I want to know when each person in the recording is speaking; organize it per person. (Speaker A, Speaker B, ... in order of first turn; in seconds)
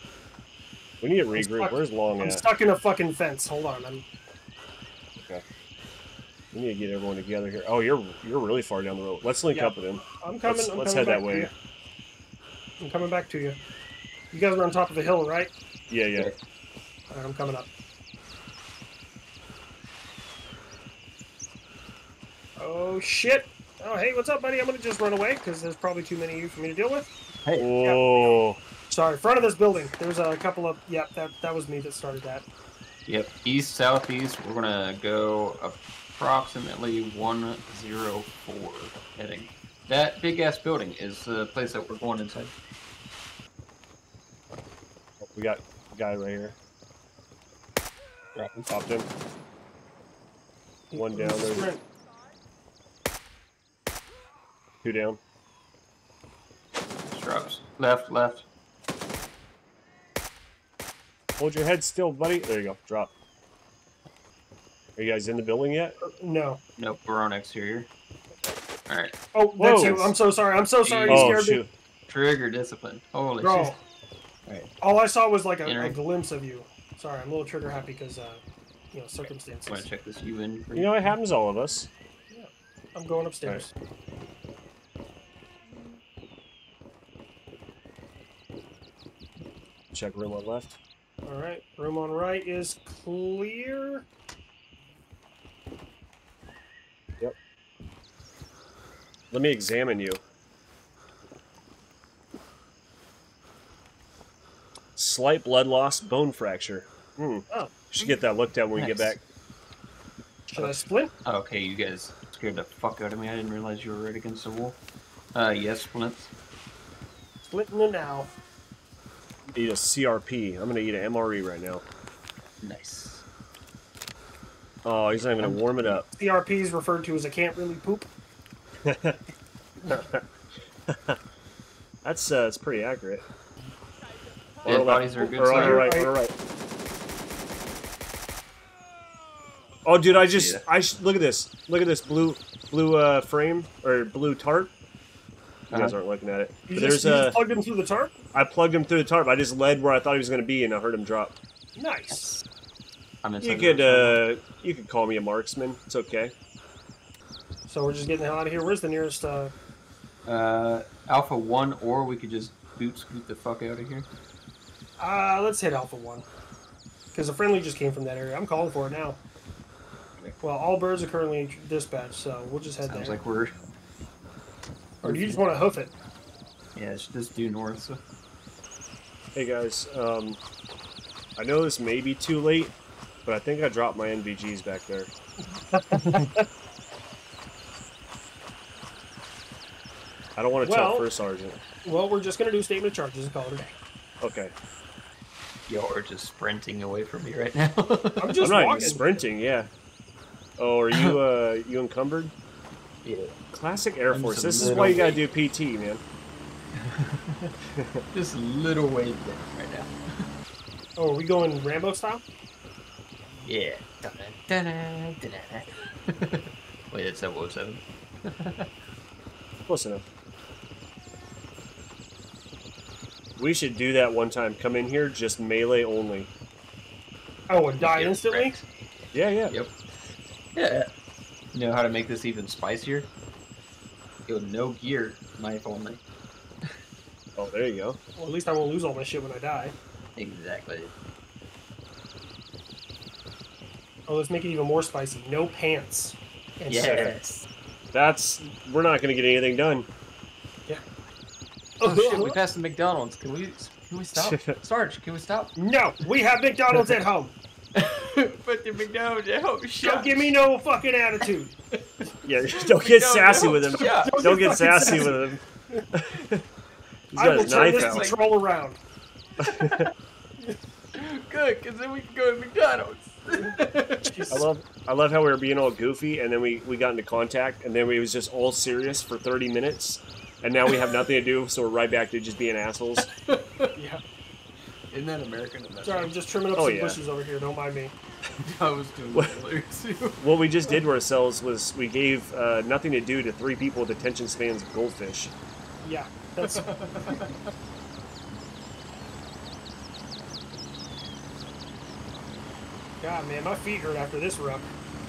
Speaker A: 1.0-2.4, 5.2-5.4, 6.5-11.5, 15.9-16.3, 27.6-28.6, 45.2-46.6, 48.7-49.1, 50.9-51.7, 54.8-55.2, 61.4-63.1, 65.0-66.0, 69.6-70.1, 71.1-71.7, 80.7-81.9, 89.9-90.8, 99.3-100.2, 105.0-109.2, 119.5-121.8, 124.8-126.1, 128.8-129.2, 129.9-130.2, 130.9-131.2, 132.0-133.2, 134.6-136.3, 139.9-144.7, 145.7-147.4, 148.3-151.4, 153.4-156.3, 179.3-180.4, 181.4-185.1, 190.4-191.6, 194.2-194.5, 198.4-199.7, 200.6-202.3, 203.5-206.0, 207.8-208.0, 219.7-220.0, 223.4-226.3, 229.1-229.6, 237.4-238.0, 246.8-247.1, 247.9-249.9, 254.2-254.6, 262.2-265.4, 265.9-266.4, 267.1-268.1, 269.4-269.9, 274.3-283.1, 286.6-287.0, 290.2-295.3
Speaker B: 1.4-4.0, 9.5-11.5, 12.8-13.6, 14.3-15.5, 17.1-17.7, 22.6-27.1, 27.8-28.3, 28.9-32.5, 50.9-51.8, 66.0-66.6, 69.3-71.6, 73.4-73.8, 74.8-78.4, 78.9-79.8, 82.3-83.7, 91.3-94.1, 110.5-111.1, 117.4-118.3, 126.1-128.1, 135.5-136.1, 146.7-148.1, 151.8-152.3, 157.7-159.5, 165.0-166.2, 167.1-169.2, 170.4-173.2, 175.0-175.9, 185.7-186.3, 190.6-191.1, 191.8-193.8, 198.2-199.0, 211.0-212.2, 227.5-228.5, 238.2-239.8, 244.1-247.1, 251.8-252.4, 255.6-257.4, 259.8-261.5, 263.5-265.9, 267.2-268.8, 274.1-274.4, 283.8-284.0, 285.8-287.9, 295.8-296.7, 303.0-304.7
Speaker C: 33.1-42.5, 48.4-48.7, 57.1-58.5, 66.8-67.9, 68.9-69.2, 70.8-71.4, 72.1-73.8, 75.7-76.0, 79.7-81.1, 108.8-109.1, 111.2-114.8, 115.3-116.3, 122.6-123.2, 125.4-125.9, 134.7-135.9, 140.1-140.6, 145.7-146.0, 152.1-152.4, 153.2-154.2, 160.3-164.1, 172.9-173.5, 176.8-178.0, 195.7-198.5, 203.1-203.3, 204.1-205.2, 206.8-207.5, 208.1-210.3, 213.4-218.7, 227.8-228.7, 230.6-230.9, 231.5-233.1, 234.3-236.0, 240.2-240.9, 246.7-247.5, 251.8-255.6, 257.8-260.3, 261.8-264.4, 267.3-268.2, 269.4-269.9, 270.9-274.4, 280.7-281.0, 283.0-283.7, 284.9-286.1, 288.4-290.2, 296.4-297.4